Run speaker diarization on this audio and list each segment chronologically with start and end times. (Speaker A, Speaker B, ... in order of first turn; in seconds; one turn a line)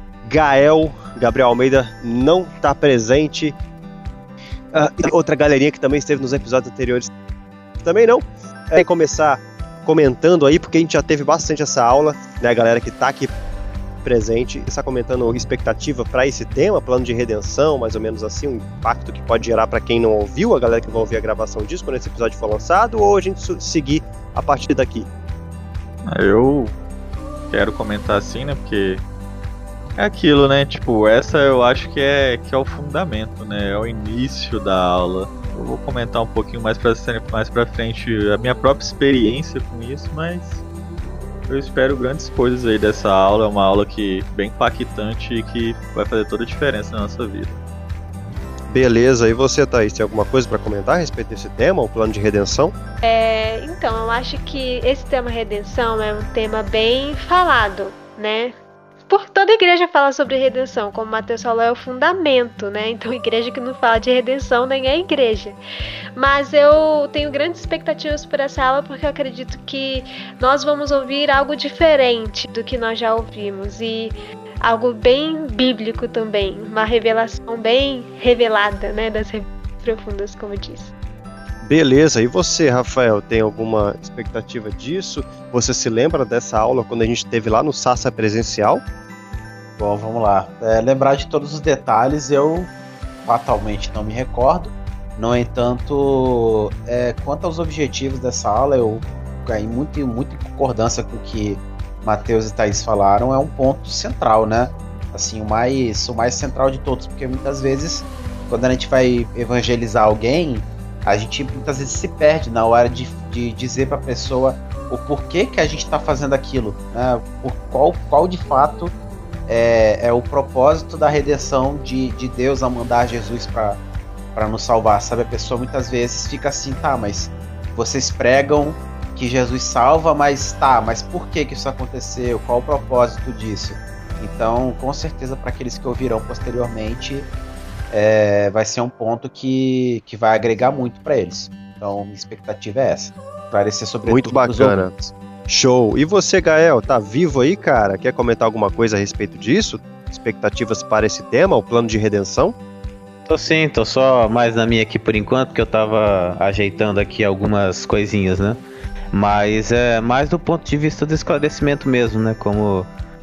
Speaker A: 0.2-3.5
Speaker A: 4.7-7.1
Speaker A: 7.8-13.3
Speaker A: 14.0-25.1
Speaker B: 26.0-26.7
Speaker B: 27.5-29.0
Speaker B: 30.0-40.6
Speaker B: 41.5-47.6
Speaker A: 48.7-52.7
Speaker C: 53.0-58.5
Speaker C: 59.1-65.6
Speaker C: 66.2-80.9
Speaker A: 81.6-88.8
Speaker D: 89.8-92.7
Speaker D: 93.2-118.9
Speaker D: 119.5-123.8
Speaker D: 124.3-137.3
Speaker D: 137.9-144.9
Speaker A: 144.1-152.6
Speaker E: 153.2-162.9